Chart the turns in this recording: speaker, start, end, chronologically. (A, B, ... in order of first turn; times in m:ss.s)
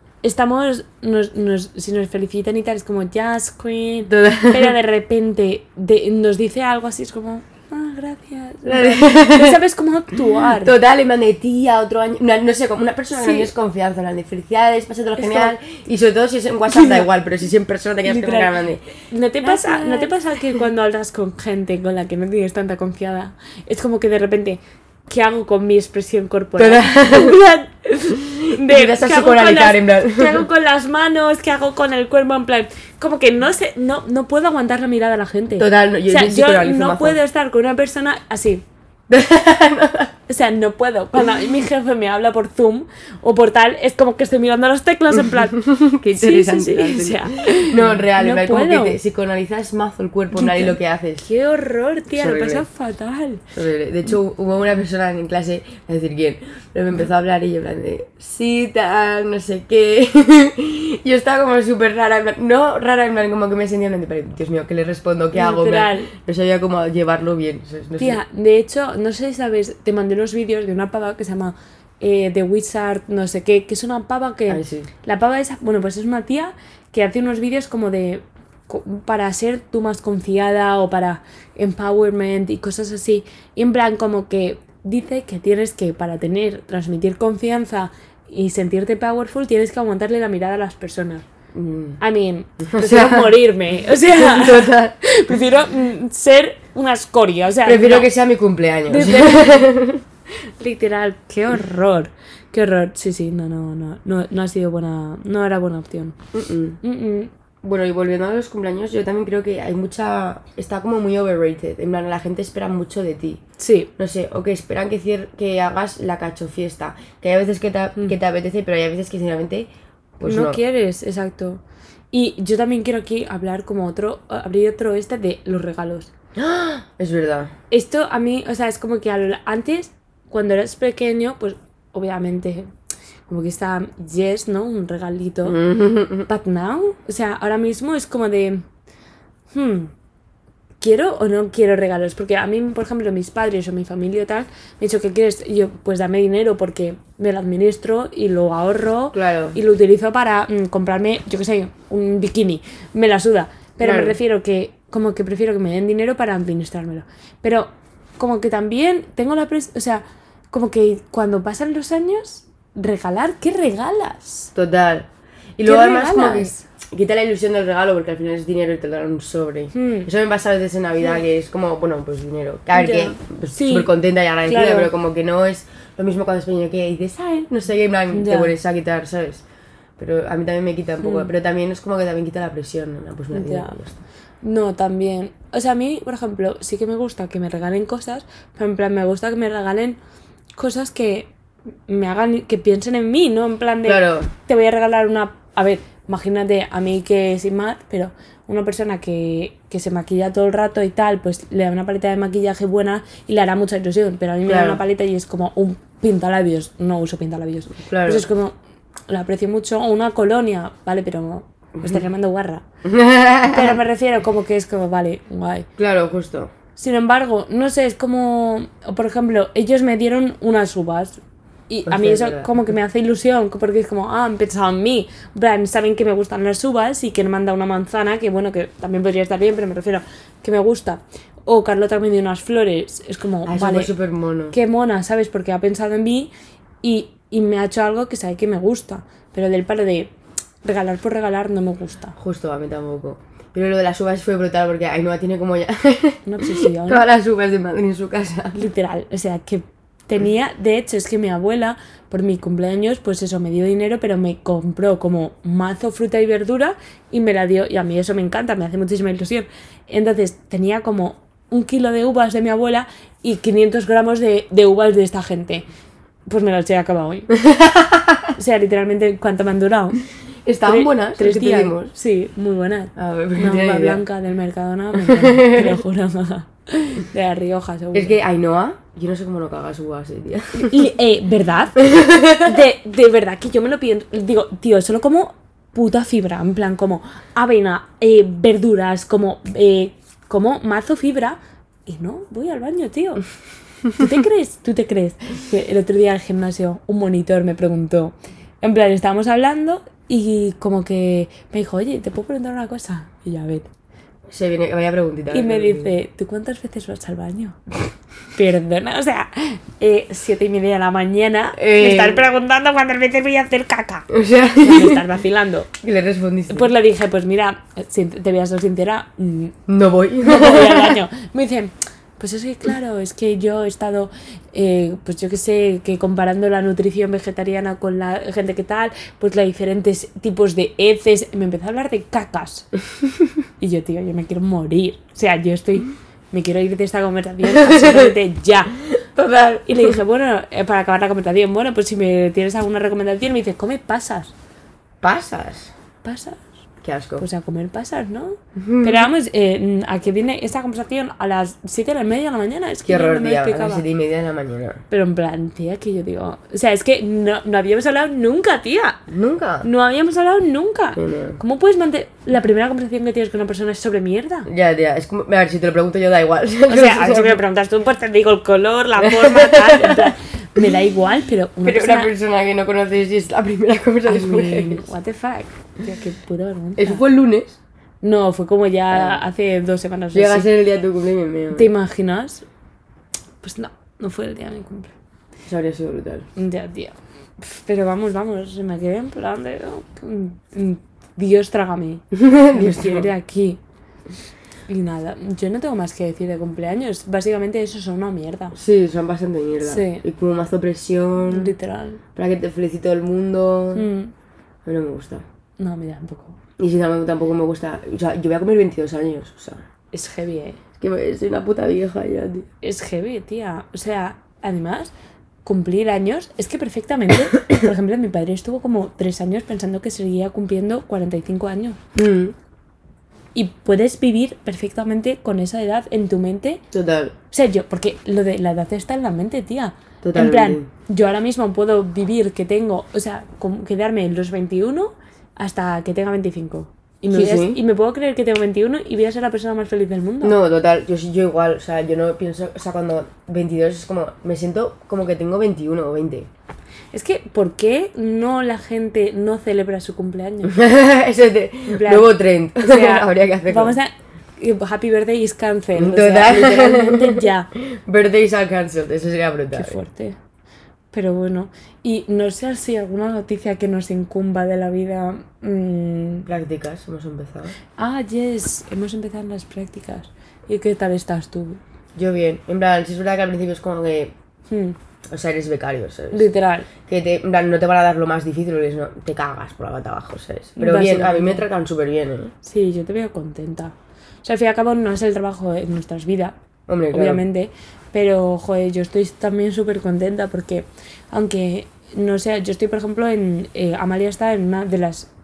0:00.2-0:10.8 A
0:04.1-0:04.7 B
0:08.7-0:09.6 B
0:10.5-0:20.2 B
0:13.2-0:13.5 A
0:15.2-0:15.6 A
0:16.7-0:17.1 A
0:18.0-0:18.5 A
0:19.1-0:38.6 A
0:26.6-0:27.4 B
0:28.1-0:30.4 B
0:35.6-0:37.2 B
0:39.1-0:40.1 B
0:40.3-0:49.0 A
0:45.5-0:51.3 B
0:50.3-0:53.4 A
0:52.1-0:52.6 B
0:53.5-1:08.2 B
1:05.3-1:06.1 A
1:08.0-1:31.2 A
1:14.5-1:14.9 B
1:31.5-1:32.0 B
1:32.0-1:38.1 A
1:32.7-1:35.0 B
1:37.6-1:40.0 B
1:38.9-1:39.7 A
1:40.6-1:46.2 A
1:46.3-1:46.8 B
1:46.8-1:47.3 A
1:47.6-1:53.4 B
1:53.6-1:53.9 A
1:54.0-2:00.6 B
2:00.2-2:06.1 A
2:06.4-2:07.5 B
2:07.7-2:12.7 A
2:13.3-2:15.6 A
2:15.4-2:16.3 B
2:16.3-2:18.6 A
2:19.5-2:19.9 A
2:20.8-2:44.5 A
2:29.1-2:29.6 B
2:33.8-2:34.2 B
2:44.6-2:59.4 B
2:45.6-2:46.6 A
2:49.7-2:50.1 A
2:52.7-2:53.9 A
2:54.4-2:54.9 A
2:58.1-2:58.6 A
3:00.0-3:04.0 B
3:01.0-3:01.3 A
3:03.3-3:03.8 A
3:04.4-3:10.0 A
3:10.6-3:11.3 A
3:11.9-3:28.6 A
3:13.8-3:14.3 B
3:24.5-3:24.8 B
3:27.8-3:28.3 B
3:29.1-3:32.6 A
3:32.8-3:33.8 B
3:33.4-3:35.7 A
3:35.8-3:36.5 B
3:36.8-3:53.9 A
3:41.9-3:42.5 B
3:53.5-3:54.6 B
3:54.5-3:56.3 A
3:56.8-4:00.1 A
4:00.6-4:02.2 A
4:02.2-4:08.6 B
4:06.3-4:07.0 A
4:08.6-4:25.6 A
4:26.3-4:27.3 A
4:27.4-4:28.3 B
4:28.4-4:30.0 A
4:30.5-4:31.9 B
4:30.6-4:38.2 A
4:33.0-4:34.0 B
4:35.0-4:35.8 B
4:37.9-4:40.8 B
4:40.6-4:53.2 A
4:41.8-4:42.4 B
4:53.9-5:03.7 A
5:04.3-5:06.0 B
5:05.3-5:07.6 A
5:08.4-5:15.7 A
5:11.6-5:12.3 B
5:14.1-5:15.0 B
5:15.8-5:16.7 B
5:16.5-5:19.6 A
5:19.7-5:21.0 B
5:20.2-5:32.7 A
5:33.6-5:38.8 A
5:37.4-5:38.1 B
5:39.1-5:40.0 B
5:39.7-5:44.3 A
5:45.0-5:45.7 B
5:46.0-5:46.4 A
5:46.8-5:47.2 B
5:47.2-5:53.8 A
5:48.6-5:49.1 B
5:52.8-5:54.8 B
5:54.9-5:59.0 A
5:59.1-5:59.7 B
5:59.6-6:04.5 A
6:01.0-6:01.4 B
6:04.5-6:07.4 B
6:06.7-6:12.1 A
6:09.0-6:10.1 B
6:11.6-6:14.9 B
6:14.1-6:17.0 A
6:16.8-6:17.6 B
6:18.0-6:20.5 A
6:18.9-6:19.2 B
6:20.1-6:21.7 B
6:21.5-6:22.4 A
6:23.4-6:24.9 A
6:25.5-6:26.3 B
6:26.4-6:33.6 A
6:32.1-6:33.1 B
6:34.7-6:38.6 A
6:38.5-6:41.5 B
6:39.6-6:40.0 A
6:41.3-6:42.0 A
6:42.2-6:43.9 B
6:43.7-6:44.1 A
6:44.7-6:45.2 B
6:45.6-6:46.4 A
6:46.6-6:49.6 B
6:49.9-6:50.6 A
6:50.8-6:52.5 B
6:52.6-6:54.9 A
6:55.4-7:01.8 A
7:02.0-7:02.4 B
7:03.3-7:06.6 A
7:06.7-7:07.2 B
7:07.3-7:20.4 A
7:10.0-7:10.7 B
7:17.1-7:17.6 B
7:20.2-7:26.3 B
7:26.9-7:30.6 A
7:30.4-7:33.8 B
7:31.7-7:37.5 A
7:35.8-7:39.8 B
7:39.5-7:40.2 A
7:40.9-7:46.3 A
7:46.3-7:47.5 B
7:47.8-7:51.6 A
7:52.0-7:54.1 B
7:54.5-7:54.8 A
7:55.1-7:56.3 B
7:56.1-7:56.7 A
7:56.9-8:02.3 B
8:00.6-8:01.4 A
8:02.4-8:06.4 A
8:06.7-8:07.2 B
8:06.9-8:15.1 A